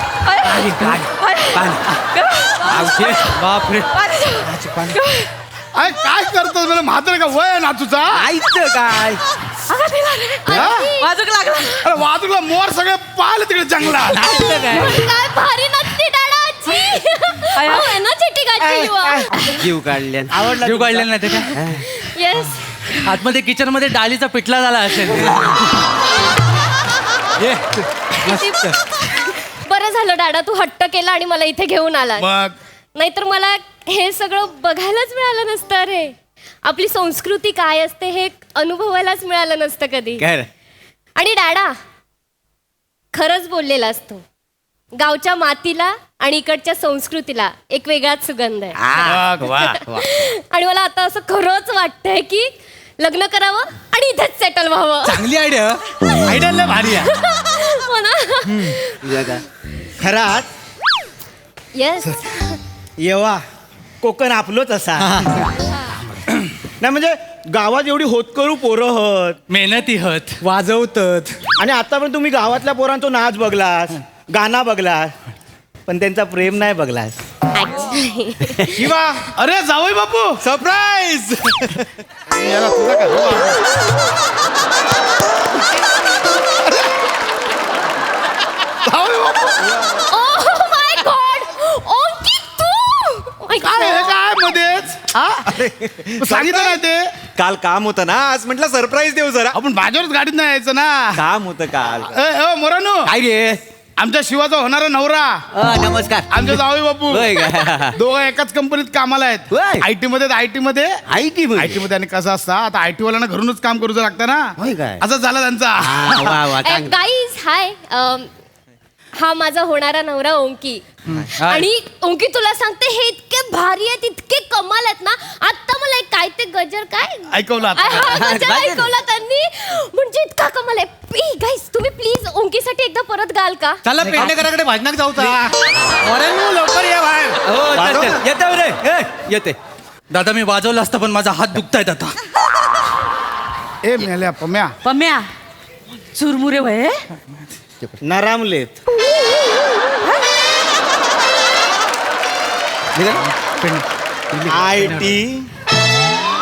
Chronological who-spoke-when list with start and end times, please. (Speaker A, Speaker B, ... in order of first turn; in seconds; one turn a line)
Speaker A: 0.2-3.3
Speaker B: 0.5-1.8
Speaker B: 2.6-3.3
Speaker C: 3.4-3.9
Speaker A: 3.9-5.3
Speaker D: 4.4-5.0
Speaker E: 5.7-8.3
Speaker B: 8.1-9.2
Speaker A: 9.7-11.8
Speaker F: 10.4-11.1
Speaker E: 10.5-10.9
Speaker E: 11.8-14.3
Speaker F: 14.1-19.5
Speaker D: 14.3-14.6
Speaker A: 17.5-18.0
Speaker G: 18.6-19.4
Speaker B: 19.6-20.3
Speaker G: 20.3-21.1
Speaker C: 20.6-21.5
Speaker B: 21.6-21.8
Speaker F: 21.8-23.1
Speaker C: 23.0-25.5
Speaker F: 28.2-32.2
Speaker E: 32.2-32.5
Speaker F: 32.9-40.2
Speaker B: 40.2-40.5
Speaker F: 41.2-41.7
Speaker F: 43.1-44.2
Speaker F: 44.9-48.8
Speaker B: 48.8-50.0
Speaker E: 49.0-49.8
Speaker F: 49.9-55.3
Speaker D: 55.0-57.1
Speaker F: 56.3-59.1
Speaker B: 59.0-59.4
Speaker G: 60.0-60.5
Speaker F: 61.7-62.6
Speaker G: 63.0-63.4
Speaker G: 64.0-65.2
Speaker D: 65.0-65.3
Speaker G: 66.8-69.3
Speaker C: 69.5-70.4
Speaker D: 70.4-71.4
Speaker G: 71.6-75.1
Speaker G: 75.9-77.2
Speaker F: 77.5-78.9
Speaker D: 78.8-79.2
Speaker E: 79.3-80.4
Speaker D: 80.4-81.8
Speaker E: 82.3-83.6
Speaker E: 86.6-86.9
Speaker E: 88.8-89.7
Speaker F: 90.1-94.1
Speaker E: 93.6-95.5
Speaker G: 95.5-96.8
Speaker E: 96.2-97.0
Speaker G: 97.3-98.9
Speaker D: 98.2-99.5
Speaker E: 99.5-101.2
Speaker G: 101.2-102.1
Speaker E: 102.1-103.1
Speaker B: 103.1-103.6
Speaker E: 104.0-105.3
Speaker B: 105.5-108.0
Speaker E: 106.3-110.9
Speaker B: 109.5-109.9
Speaker B: 111.1-111.8
Speaker E: 111.5-116.5
Speaker B: 114.6-115.0
Speaker B: 115.8-117.0
Speaker F: 116.6-118.3
Speaker F: 119.2-120.8
Speaker C: 121.1-121.6
Speaker F: 121.4-133.8
Speaker E: 127.3-128.2
Speaker B: 128.1-128.9
Speaker D: 133.8-135.5
Speaker B: 134.0-134.4
Speaker D: 136.0-138.2
Speaker B: 137.4-139.6
Speaker C: 140.1-142.1
Speaker E: 143.8-144.7
Speaker A: 144.8-145.3
Speaker A: 146.1-147.0
Speaker G: 148.0-148.7
Speaker B: 152.9-153.2
Speaker C: 153.5-153.8
Speaker B: 154.3-154.6
Speaker G: 154.5-155.4